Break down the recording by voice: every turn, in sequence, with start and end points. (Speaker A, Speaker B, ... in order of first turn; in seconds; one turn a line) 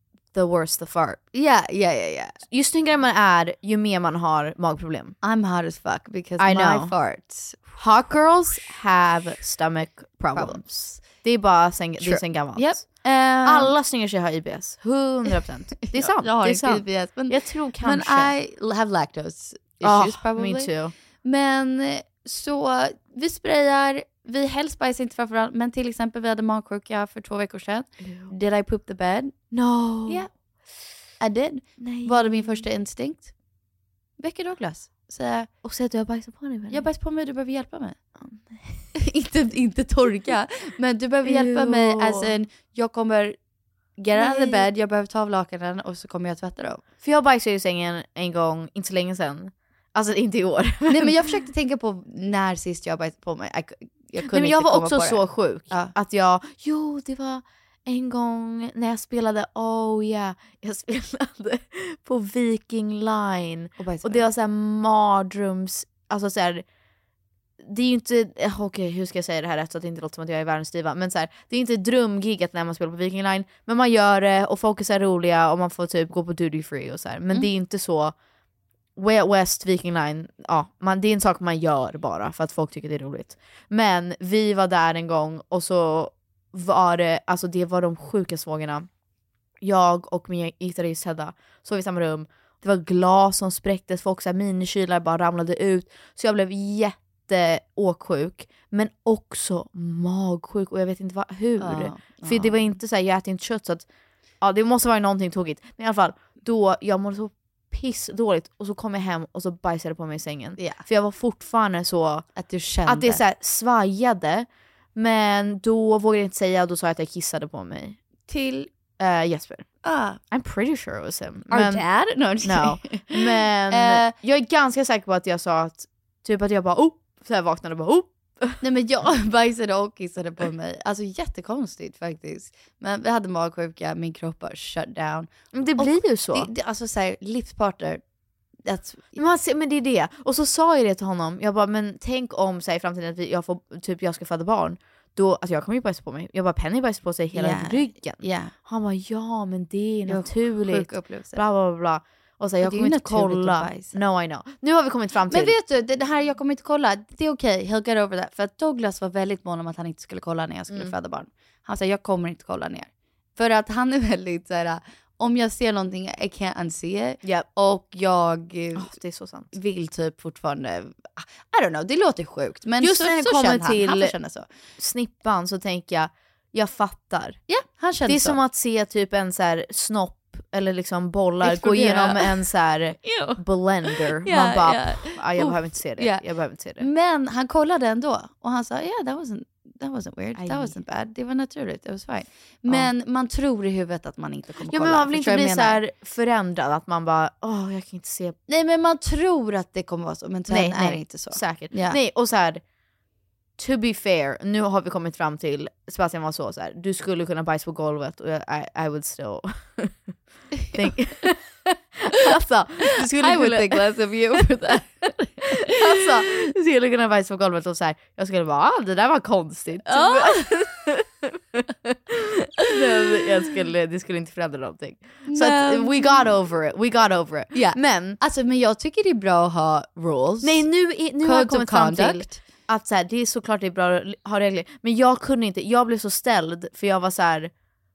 Speaker A: 0.3-1.2
Speaker B: 1.3-2.4
Speaker A: 2.5-5.1
Speaker B: 5.2-7.7
Speaker A: 6.4-6.9
Speaker A: 7.8-12.8
Speaker B: 10.3-10.6
Speaker B: 12.0-13.7
Speaker A: 13.4-18.3
Speaker B: 15.8-20.7
Speaker A: 19.8-20.9
Speaker B: 21.2-29.4
Speaker A: 28.0-28.3
Speaker A: 29.5-30.2
Speaker B: 31.2-33.3
Speaker A: 31.8-32.6
Speaker B: 34.2-35.5
Speaker A: 35.6-36.8
Speaker B: 36.7-38.0
Speaker A: 38.2-38.9
Speaker B: 38.9-43.4
Speaker A: 41.2-42.3
Speaker B: 44.0-46.8
Speaker A: 44.1-44.7
Speaker A: 47.0-51.2
Speaker B: 50.9-55.9
Speaker A: 54.2-66.6
Speaker B: 63.8-64.3
Speaker A: 67.6-78.1
Speaker A: 79.0-88.9
Speaker A: 89.6-103.9
Speaker B: 101.6-102.7
Speaker A: 104.4-112.2
Speaker B: 110.6-110.8
Speaker B: 112.3-113.2
Speaker A: 112.8-118.0
Speaker B: 118.3-118.7
Speaker A: 119.0-119.6
Speaker B: 119.8-120.2
Speaker A: 120.3-121.8
Speaker B: 121.5-124.1
Speaker A: 122.4-128.6
Speaker B: 128.6-138.0
Speaker A: 135.5-136.5
Speaker B: 138.7-139.2
Speaker A: 139.2-155.5
Speaker B: 147.3-148.5
Speaker B: 150.1-151.4
Speaker B: 152.6-154.0
Speaker B: 155.3-168.9
Speaker A: 168.8-169.5
Speaker B: 169.5-174.4
Speaker A: 172.8-174.1
Speaker A: 174.8-177.4
Speaker B: 177.5-178.4
Speaker A: 178.1-186.9
Speaker B: 181.4-182.4
Speaker B: 183.0-186.2
Speaker B: 186.8-195.8
Speaker A: 190.3-190.7
Speaker A: 194.7-198.4
Speaker B: 198.5-202.0
Speaker A: 200.5-202.6
Speaker A: 203.6-210.0
Speaker A: 210.7-213.8
Speaker B: 213.0-216.2
Speaker A: 215.6-228.2
Speaker B: 219.8-220.5
Speaker B: 225.3-226.3
Speaker B: 227.5-230.7
Speaker A: 230.4-237.5
Speaker B: 231.2-232.4